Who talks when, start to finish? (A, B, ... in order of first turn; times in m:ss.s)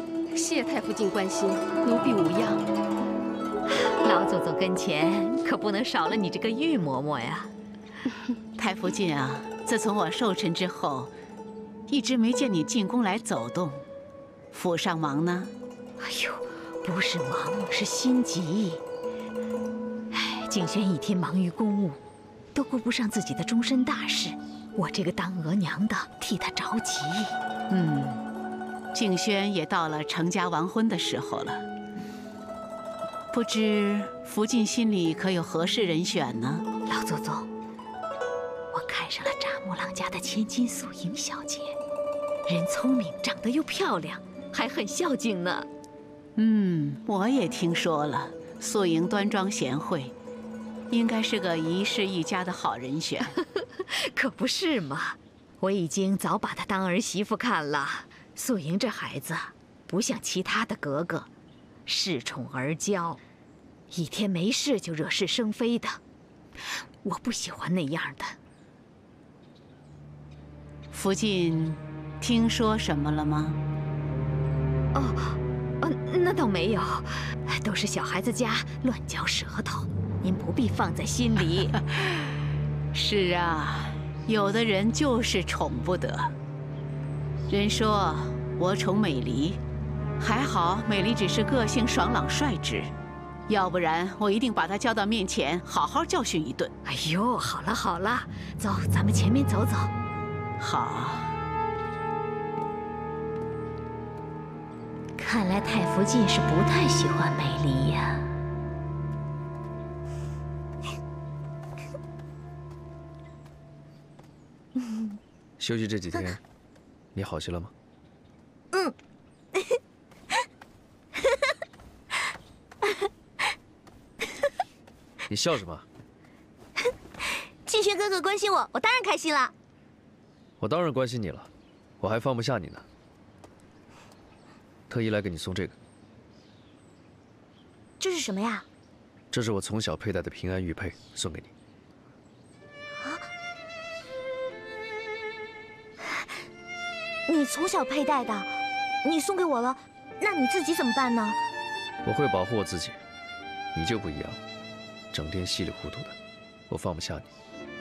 0:00.3-0:02.7 A
0:03.9-0:07.5 B
0:08.6-0:11.1 C
0:11.9-0:13.8 C
0:14.5-0:15.5 C
0:16.0-0:18.8 B
0:20.1-0:22.0 B
0:22.5-0:27.4 B
0:27.7-0:28.2 C
0:28.9-0:31.6 C
0:33.3-0:36.6 C
0:36.9-0:37.5 B
0:38.7-0:41.8 B
0:42.5-0:45.7 B
0:46.4-0:50.1 C
0:50.9-0:53.4 C
0:53.4-1:01.3 B
1:01.9-1:03.2 B
1:03.9-1:06.0 B
1:07.0-1:08.4 B
1:10.9-1:13.6 C
1:14.9-1:21.8 B
1:22.9-1:26.3 C
1:27.5-1:29.6 C
1:30.2-1:32.9 C
1:33.5-1:36.7 C
1:36.9-1:39.9 B
1:40.6-1:41.4 C
1:45.2-1:48.3 B
1:55.6-1:56.4 D
1:57.1-1:57.7 D
2:05.3-2:05.9 D
2:07.6-2:09.5 E
2:10.6-2:12.8 D
2:14.9-2:15.8 D
2:18.0-2:18.6 E
2:19.3-2:21.5 D
2:27.3-2:31.4 E
2:32.0-2:33.0 D
2:33.7-2:34.4 D
2:35.1-2:36.2 D
2:36.7-2:37.3 D